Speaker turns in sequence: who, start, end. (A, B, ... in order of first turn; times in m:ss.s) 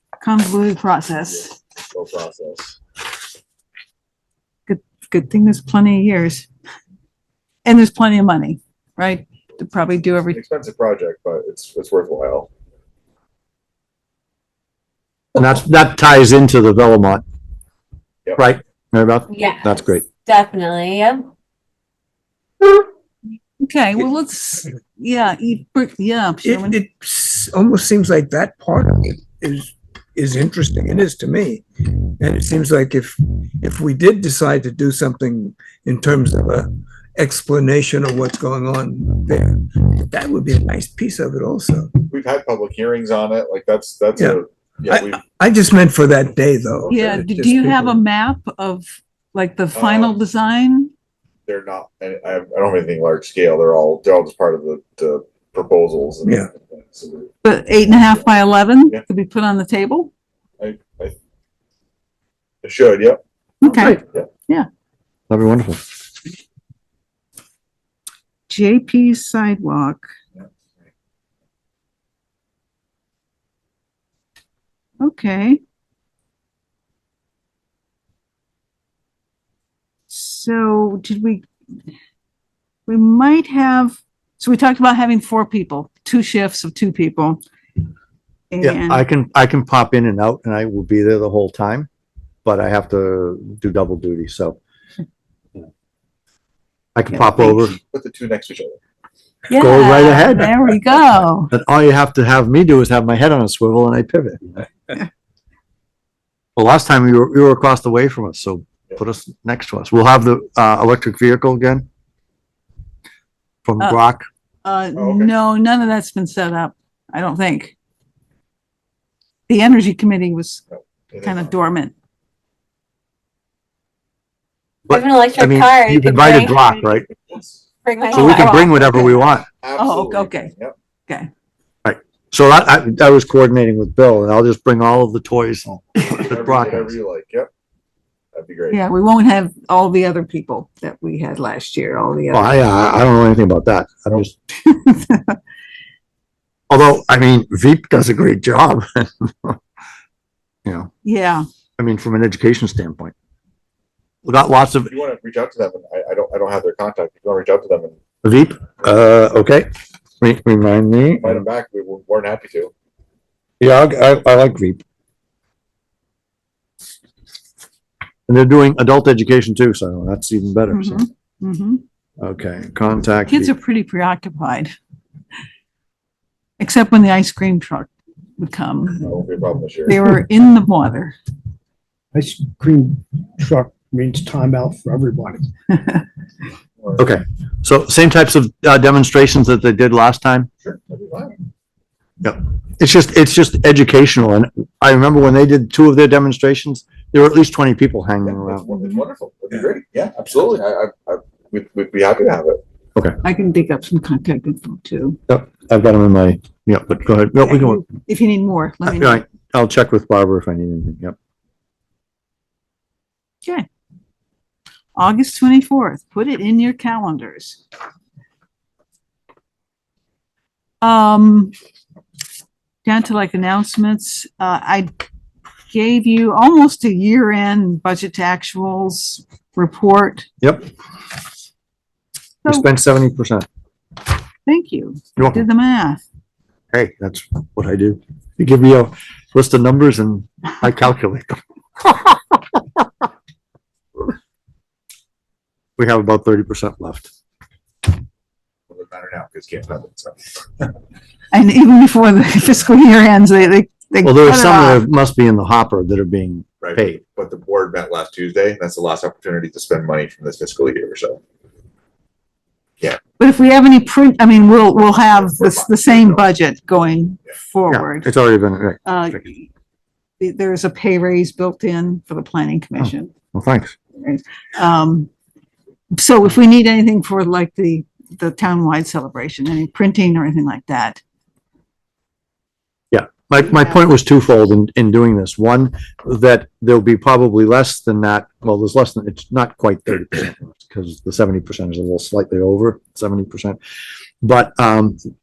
0:00.2-0:01.5 A
0:01.2-0:02.8 B
0:04.7-0:06.4 A
0:07.6-0:10.4 A
0:10.3-0:12.5 B
0:15.3-0:17.2 C
0:18.4-0:20.1 C
0:19.3-0:19.7 D
0:20.2-0:21.3 D
0:23.6-0:26.8 A
0:26.4-0:31.6 E
0:32.2-0:41.9 E
0:42.1-0:45.2 B
0:44.2-0:48.0 E
0:46.9-0:50.9 A
0:49.7-0:50.2 B
0:51.5-0:57.3 B
0:56.2-0:56.5 E
0:57.4-1:00.1 A
0:57.9-0:58.3 B
1:00.6-1:01.2 B
1:02.6-1:03.2 B
1:03.6-1:04.7 A
1:03.6-1:03.9 C
1:04.0-1:04.3 B
1:05.3-1:05.8 C
1:08.5-1:10.0 A
1:15.0-1:15.6 A
1:20.1-1:21.4 A
1:22.9-1:27.4 A
1:28.5-1:29.0 A
1:28.6-1:31.9 C
1:32.4-1:34.6 C
1:36.9-1:37.8 C
1:37.1-1:37.7 A
1:37.8-1:38.8 B
1:39.5-1:41.5 A
1:39.5-1:40.5 C
1:41.5-1:44.5 C
1:46.6-1:51.8 C
1:53.6-1:54.3 C
1:54.6-1:57.7 A
1:55.0-1:55.3 B
1:59.5-2:00.6 A
2:00.7-2:01.5 B
2:01.2-2:01.9 A
2:04.9-2:07.0 C
2:04.9-2:06.7 D
2:06.9-2:07.6 B
2:07.8-2:09.2 D
2:08.1-2:09.4 C
2:08.1-2:08.6 A
2:09.6-2:10.7 B
2:09.8-2:10.5 A
2:11.8-2:17.0 C
2:16.1-2:17.5 B
2:18.3-2:18.8 B
2:18.7-2:22.5 A
2:22.3-2:24.3 C
2:24.6-2:25.4 A
2:26.7-2:29.6 C
2:30.6-2:30.9 C
2:31.0-2:31.4 A
2:31.8-2:33.1 C
2:34.2-2:34.9 C
2:34.9-2:37.9 B
2:38.2-2:39.7 C
2:40.2-2:41.4 C
2:41.2-2:42.7 B
2:43.6-2:44.8 C
2:48.3-2:51.0 C
2:50.7-2:51.8 A
2:52.2-2:53.5 C
2:53.3-2:54.7 A
2:56.6-2:59.1 A
2:59.0-3:00.0 B
2:59.9-3:01.2 A
3:02.1-3:05.4 F
3:07.0-3:10.5 C
3:10.6-3:11.4 B
3:12.2-3:18.7 C
3:18.2-3:22.6 B
3:18.7-3:19.0 A
3:23.2-3:25.2 A
3:25.3-3:27.8 C
3:27.4-3:29.2 A
3:28.8-3:31.1 C
3:34.9-3:37.6 A
3:40.8-3:41.5 A
3:42.8-3:44.9 A
3:45.7-3:50.3 A
3:50.4-3:50.6 C
3:52.4-3:53.4 C
3:54.4-3:56.0 A
3:55.2-3:55.4 C
3:56.7-4:02.8 C
4:05.8-4:07.1 C
4:08.7-4:10.7 B
4:11.3-4:14.8 A
4:14.0-4:17.0 C
4:16.6-4:21.2 B
4:23.2-4:28.1 A
4:24.8-4:26.3 B
4:27.7-4:29.2 C
4:28.8-4:29.5 A
4:30.2-4:33.1 A
4:32.8-4:33.8 C
4:34.0-4:35.1 A
4:35.9-4:41.0 A
4:42.9-4:53.6 C
4:54.2-4:55.0 C